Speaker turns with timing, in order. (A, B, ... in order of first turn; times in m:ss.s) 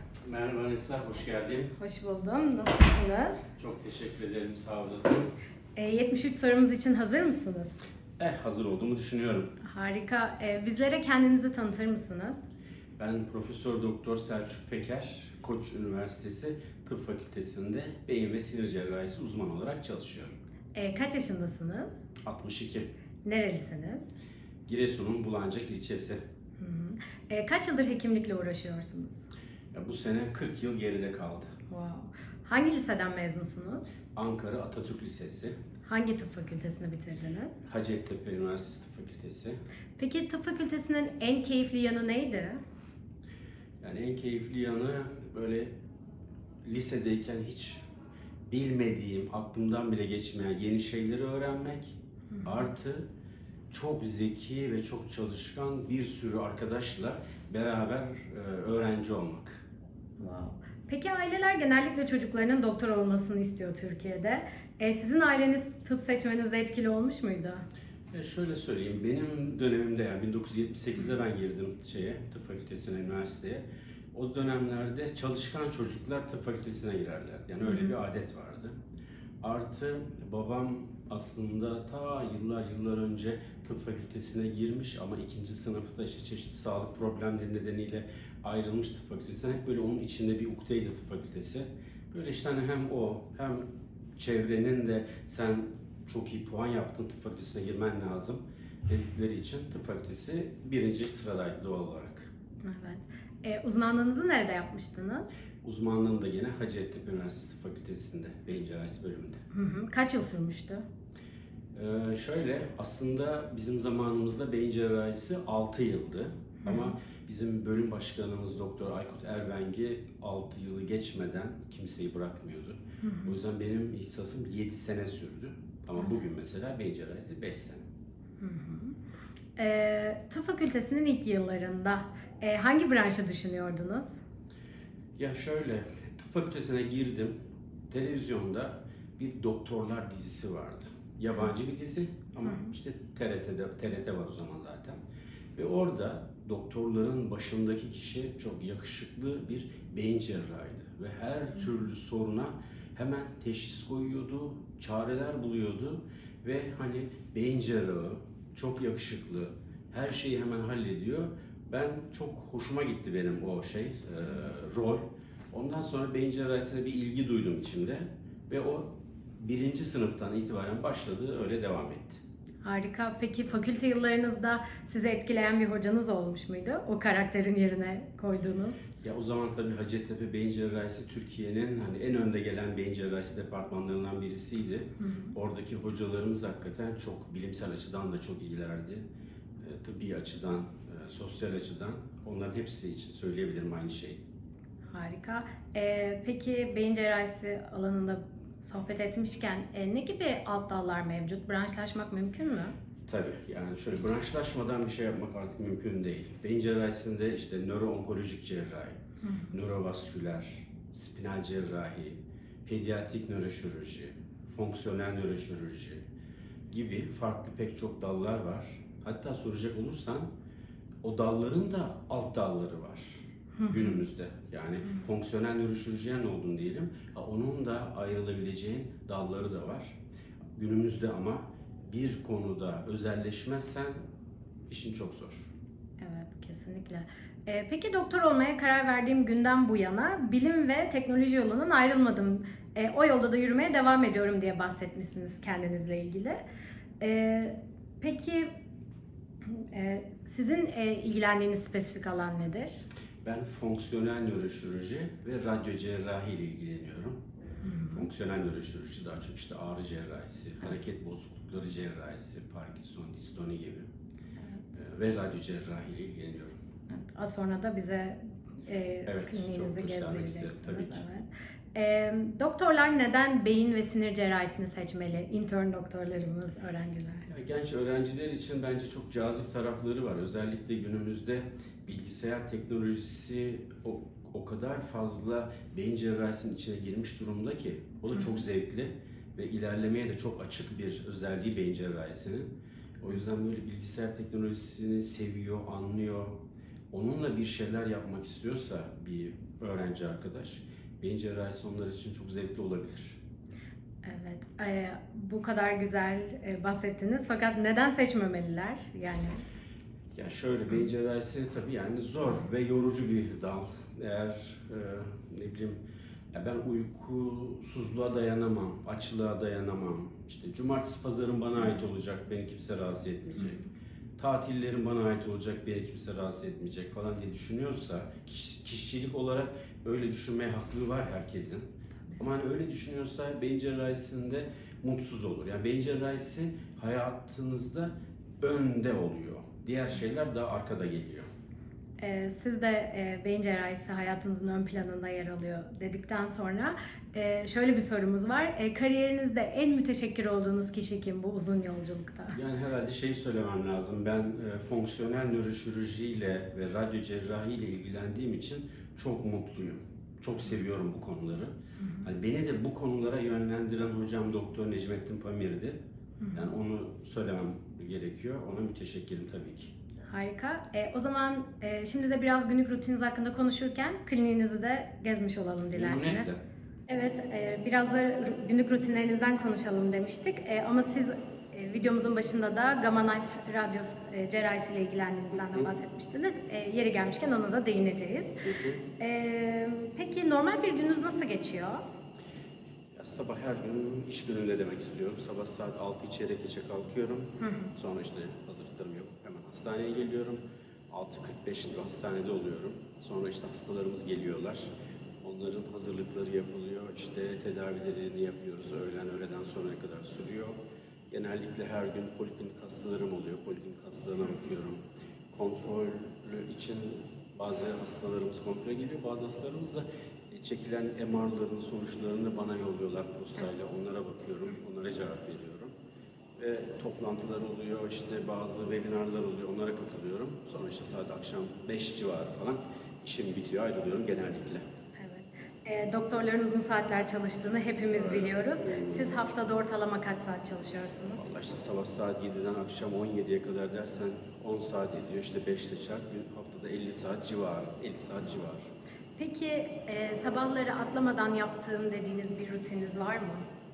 0:00.2-0:01.7 A
0:01.8-0:03.5 B
0:03.6-0:05.3 A
0:05.8-0:07.8 B
0:08.2-0:09.5 A
0:09.6-0:12.4 B
0:13.0-0:20.4 A
0:20.7-0:22.0 B
0:22.2-0:22.9 A
0:23.2-0:24.1 B
0:24.6-0:26.2 A
0:26.6-0:29.2 B
0:29.7-0:31.5 A
0:31.7-0:34.0 B
0:34.2-0:35.6 A
0:35.8-0:37.6 B
0:37.6-0:39.6 A
0:40.0-0:42.6 B
0:43.8-0:45.7 A
0:46.6-0:47.8 A
0:48.5-0:53.0 A
0:52.3-0:52.7 B
0:53.7-0:59.6 A
1:00.2-1:07.6 B
1:08.1-1:18.7 A
1:17.6-1:17.9 B
1:19.4-1:33.6 A
1:34.2-1:42.3 A
1:42.6-1:45.3 B
1:45.6-1:49.4 A
1:49.5-1:50.8 B
1:51.7-2:07.8 A
1:56.6-1:56.9 B
2:03.0-2:03.3 B
2:08.4-2:09.0 B
2:09.6-2:14.2 B
2:15.2-2:17.3 A
2:17.9-2:25.0 A
2:22.4-2:22.7 B
2:25.6-2:52.2 A
2:52.6-2:58.8 B
2:59.0-3:09.0 A
3:05.0-3:05.3 B
3:09.6-3:14.2 A
3:14.9-3:22.7 B
3:23.0-3:29.0 A
3:29.2-3:29.5 B
3:29.5-3:36.0 A
3:36.7-3:40.3 A
3:41.0-3:50.0 A
3:43.6-3:44.0 B
3:50.5-3:54.0 A
3:54.7-3:55.5 A
3:56.0-4:06.4 B
4:07.0-4:08.5 B
4:09.4-4:12.8 B
4:13.2-4:17.2 A
4:17.6-4:18.0 B
4:17.9-4:23.9 A
4:24.4-4:24.7 B
4:24.8-4:26.5 A
4:26.9-4:37.2 B
4:29.0-4:31.0 A
4:37.2-4:52.5 A
4:48.1-4:48.4 B
4:53.0-4:56.4 A
4:56.9-5:03.2 A
5:04.0-5:09.4 B
5:10.1-5:15.8 A
5:16.3-5:23.6 A
5:24.2-5:41.3 A
5:42.0-5:52.4 B
5:52.3-6:05.8 A
6:01.8-6:02.1 B
6:06.2-6:06.5 B
6:06.3-6:09.7 A
6:10.0-6:16.3 B
6:15.7-6:16.4 A
6:16.9-6:28.4 B
6:25.3-6:25.7 A
6:28.4-6:28.8 A
6:29.0-6:31.8 B
6:33.0-6:44.7 A
6:37.4-6:37.7 B
6:45.2-6:50.6 A
6:51.1-6:54.8 A
6:55.3-7:05.7 A
7:06.4-7:14.6 A
7:15.0-7:21.3 B
7:17.9-7:19.2 A
7:21.2-7:28.7 A
7:29.2-7:33.4 B